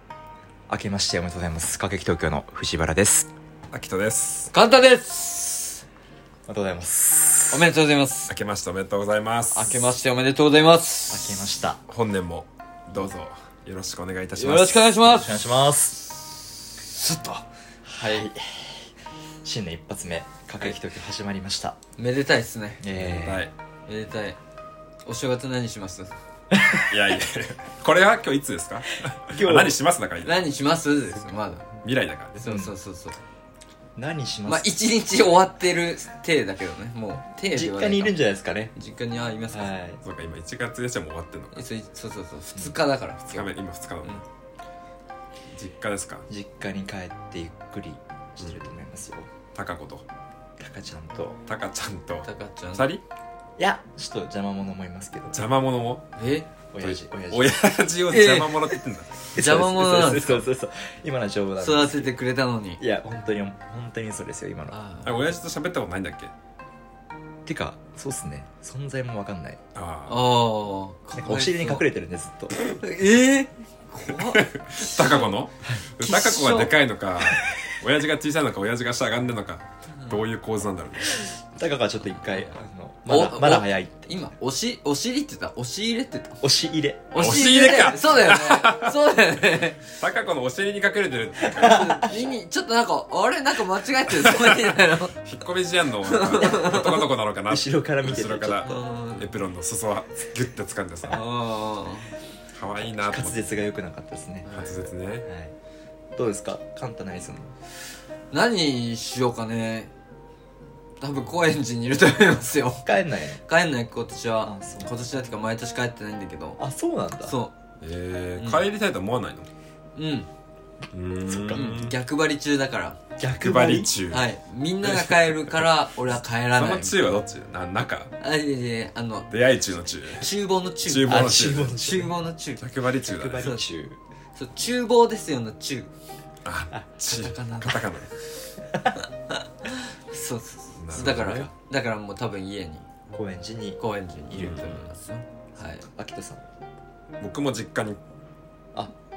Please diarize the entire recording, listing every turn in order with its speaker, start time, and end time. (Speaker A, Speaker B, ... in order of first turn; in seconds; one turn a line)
Speaker A: 0.7-3.3
Speaker B: 3.7-4.5
Speaker C: 4.5-5.8
Speaker A: 6.5-7.7
Speaker C: 7.5-8.3
Speaker B: 8.3-9.8
Speaker C: 9.5-11.5
Speaker A: 11.1-11.8
Speaker B: 11.9-14.9
Speaker C: 14.4-15.4
Speaker A: 15.0-16.0
Speaker C: 16.0-18.3
Speaker A: 17.9-18.9
Speaker A: 19.4-21.8
Speaker C: 22.0-22.8
Speaker A: 22.8-23.5
Speaker B: 22.9-23.5
Speaker C: 23.9-24.4
Speaker C: 25.1-26.1
Speaker A: 26.5-26.9
Speaker B: 26.8-30.5
Speaker A: 29.3-29.7
Speaker C: 30.2-31.7
Speaker B: 31.7-32.4
Speaker C: 32.4-33.2
Speaker A: 32.4-32.7
Speaker A: 34.0-34.7
Speaker C: 34.5-38.1
Speaker A: 37.5-38.7
Speaker C: 38.7-39.7
Speaker A: 39.5-40.0
Speaker B: 40.0-41.7
Speaker C: 41.5-43.5
Speaker B: 43.2-44.2
Speaker B: 45.5-46.3
Speaker A: 46.3-49.3
Speaker B: 48.4-48.6
Speaker B: 49.5-50.0
Speaker A: 50.6-51.4
Speaker B: 51.5-53.0
Speaker C: 52.2-52.9
Speaker A: 53.6-55.4
Speaker B: 55.3-56.2
Speaker C: 56.2-56.5
Speaker A: 56.7-57.6
Speaker B: 56.8-59.3
Speaker C: 58.1-58.7
Speaker A: 59.3-62.1
Speaker C: 59.3-60.4
Speaker C: 61.6-62.8
Speaker A: 62.8-64.8
Speaker C: 64.7-65.3
Speaker B: 65.0-66.3
Speaker A: 67.4-69.6
Speaker B: 69.8-70.3
Speaker C: 70.1-71.9
Speaker A: 71.1-72.7
Speaker C: 72.8-75.4
Speaker B: 74.0-81.4
Speaker C: 76.0-76.8
Speaker A: 77.2-77.6
Speaker C: 79.9-80.2
Speaker A: 81.2-84.2
Speaker C: 83.1-86.4
Speaker A: 86.4-87.3
Speaker C: 87.1-90.0
Speaker B: 87.1-89.0
Speaker B: 90.0-92.1
Speaker A: 91.4-92.2
Speaker C: 91.4-95.2
Speaker B: 94.1-101.2
Speaker C: 96.0-97.0
Speaker A: 96.4-98.8
Speaker C: 98.6-99.3
Speaker C: 101.1-102.1
Speaker B: 102.5-103.6
Speaker A: 102.8-104.5
Speaker C: 104.4-104.9
Speaker B: 104.5-105.3
Speaker A: 105.2-105.5
Speaker A: 106.1-107.5
Speaker C: 108.3-109.9
Speaker C: 111.0-112.9
Speaker A: 112.9-113.4
Speaker C: 113.4-116.6
Speaker A: 114.4-114.9
Speaker A: 116.6-117.4
Speaker C: 117.2-117.5
Speaker B: 117.8-119.5
Speaker C: 118.4-118.6
Speaker C: 120.0-120.3
Speaker B: 120.9-122.0
Speaker A: 121.3-121.8
Speaker C: 121.5-123.0
Speaker A: 123.2-123.9
Speaker B: 123.2-125.8
Speaker C: 124.1-126.9
Speaker B: 126.5-128.2
Speaker C: 128.2-129.3
Speaker B: 129.3-130.3
Speaker C: 130.1-132.7
Speaker B: 130.8-131.8
Speaker A: 131.1-132.2
Speaker B: 132.6-133.5
Speaker A: 133.0-134.0
Speaker C: 134.3-135.9
Speaker B: 136.4-138.2
Speaker C: 137.1-137.8
Speaker C: 139.0-142.9
Speaker B: 140.8-141.5
Speaker A: 140.9-141.5
Speaker A: 143.1-144.8
Speaker C: 143.8-145.8
Speaker B: 144.3-144.9
Speaker A: 145.6-146.4
Speaker B: 147.2-148.0